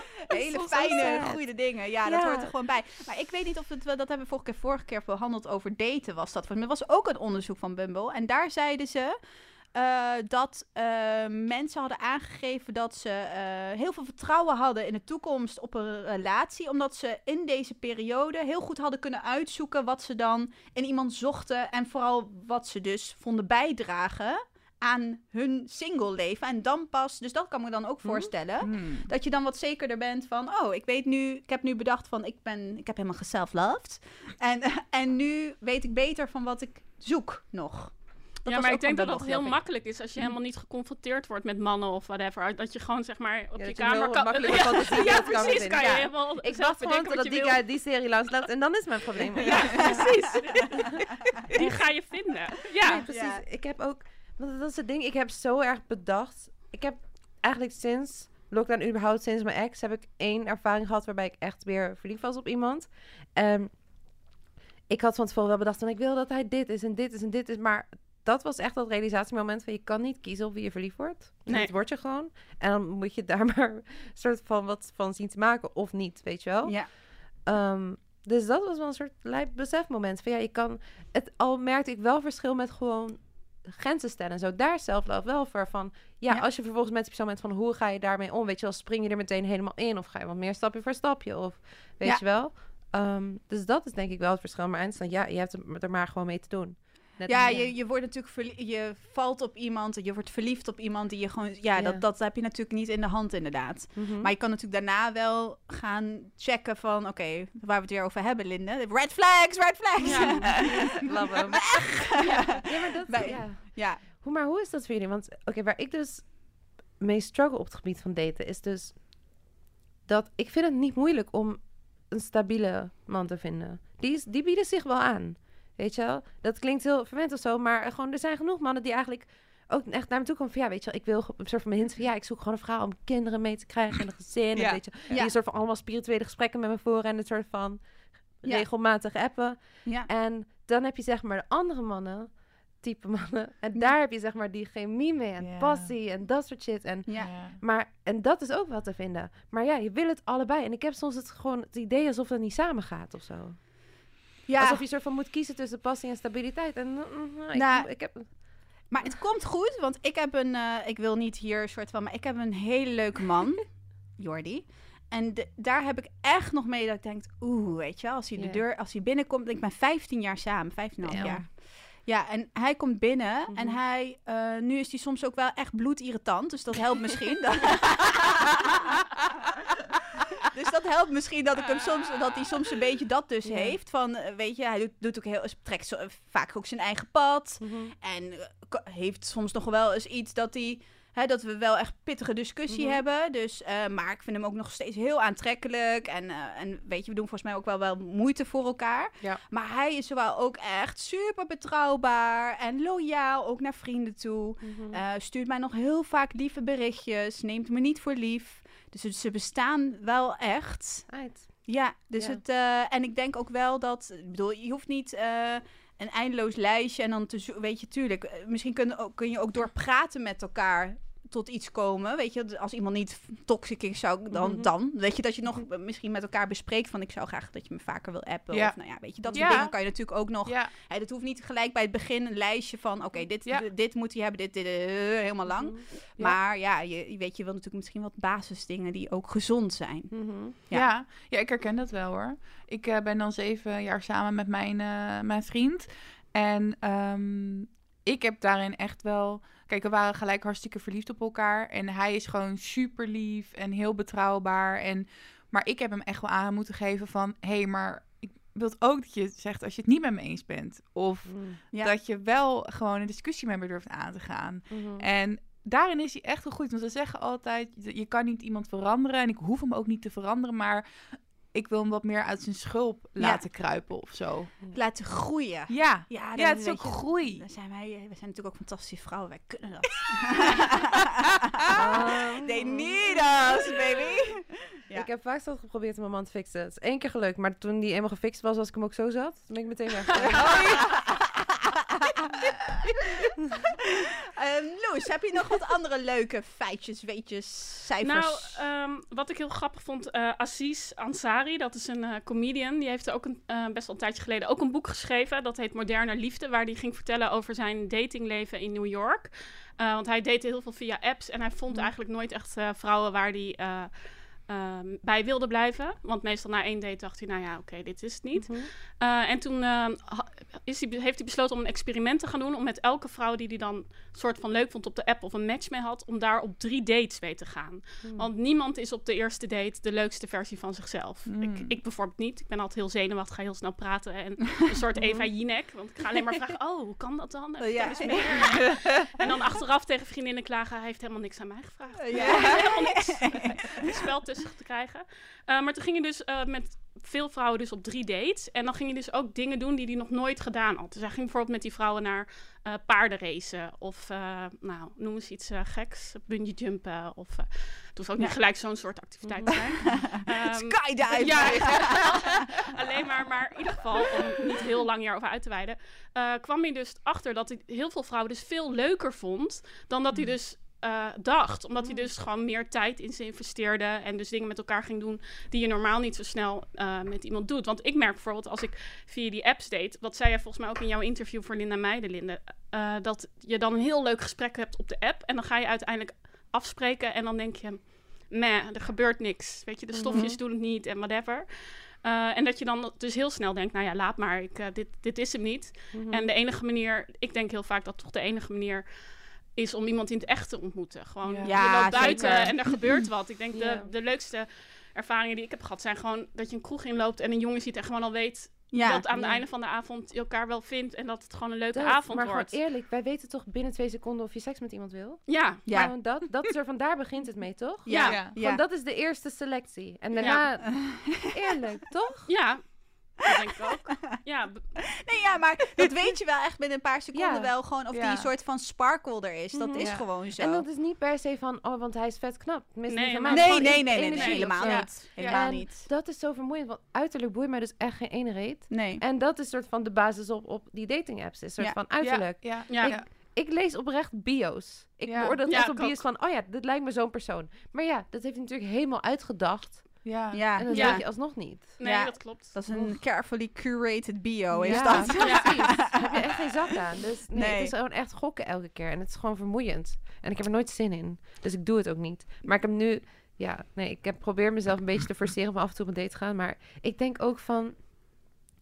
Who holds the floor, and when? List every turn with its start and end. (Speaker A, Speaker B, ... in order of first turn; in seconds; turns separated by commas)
Speaker A: 0.3-9.2, Speaker B: 0.3-2.5, Speaker A: 9.7-38.0, Speaker B: 28.0-28.3, Speaker C: 28.6-29.1, Speaker B: 38.4-39.6, Speaker D: 38.5-47.6, Speaker B: 43.6-51.9, Speaker D: 49.4-53.1, Speaker B: 52.6-63.7, Speaker A: 53.0-53.4, Speaker B: 64.9-97.7, Speaker D: 71.5-71.7, Speaker A: 97.3-111.0, Speaker B: 101.8-102.0, Speaker B: 104.0-104.3, Speaker D: 110.0-111.0, Speaker B: 110.1-119.1, Speaker A: 111.6-114.0, Speaker D: 112.3-112.6, Speaker B: 120.1-154.0, Speaker C: 134.6-134.9, Speaker A: 135.1-135.3, Speaker C: 145.4-145.9, Speaker C: 147.2-147.6, Speaker A: 154.5-154.8, Speaker B: 154.6-159.1, Speaker A: 157.5-178.7, Speaker B: 168.4-168.6, Speaker B: 171.0-171.4, Speaker C: 171.2-171.4, Speaker B: 173.5-173.8, Speaker A: 180.4-211.1, Speaker B: 183.4-183.8, Speaker B: 187.6-187.9, Speaker B: 192.7-193.0, Speaker B: 204.6-205.0, Speaker B: 211.1-212.4, Speaker A: 211.6-240.9, Speaker B: 224.3-224.7, Speaker C: 228.5-230.7, Speaker B: 229.2-229.6, Speaker B: 235.5-235.9, Speaker B: 240.1-240.6, Speaker C: 240.7-274.6, Speaker B: 261.3-261.6, Speaker B: 264.7-265.1, Speaker A: 273.2-273.4, Speaker A: 274.7-281.1, Speaker C: 275.7-277.5, Speaker B: 281.8-283.4, Speaker A: 282.4-285.1, Speaker B: 284.9-290.6, Speaker A: 290.4-291.2, Speaker A: 292.9-293.3, Speaker A: 294.4-298.5, Speaker D: 298.0-398.9, Speaker B: 318.4-318.7, Speaker B: 328.0-328.3, Speaker C: 331.3-331.7, Speaker B: 334.9-335.3, Speaker A: 337.6-338.6, Speaker A: 342.0-343.5, Speaker C: 342.1-342.6, Speaker B: 359.2-359.5, Speaker A: 359.7-362.1, Speaker B: 371.8-372.1, Speaker B: 389.9-390.4, Speaker B: 395.9-396.3, Speaker D: 399.5-412.6, Speaker C: 401.2-401.8, Speaker A: 401.4-402.9, Speaker B: 401.8-402.7, Speaker B: 403.5-403.9, Speaker A: 408.7-409.0, Speaker B: 409.1-409.4, Speaker B: 411.7-422.3, Speaker D: 415.3-415.7, Speaker A: 415.7-415.9, Speaker A: 417.9-418.6, Speaker D: 417.9-418.2, Speaker D: 420.2-420.5, Speaker A: 420.2-421.3, Speaker D: 422.3-424.6, Speaker A: 425.0-430.6, Speaker B: 427.1-427.5, Speaker C: 427.9-428.3, Speaker B: 429.5-451.8, Speaker C: 429.8-430.1, Speaker D: 432.9-435.0, Speaker A: 433.3-435.9, Speaker C: 434.6-435.4, Speaker A: 438.7-439.0, Speaker C: 442.0-443.1, Speaker D: 442.7-443.0, Speaker C: 445.1-445.4, Speaker D: 445.5-446.0, Speaker C: 450.0-450.6, Speaker A: 450.3-456.1, Speaker D: 450.7-452.6, Speaker C: 454.5-455.2, Speaker B: 454.6-467.9, Speaker D: 455.2-455.8, Speaker A: 457.3-457.7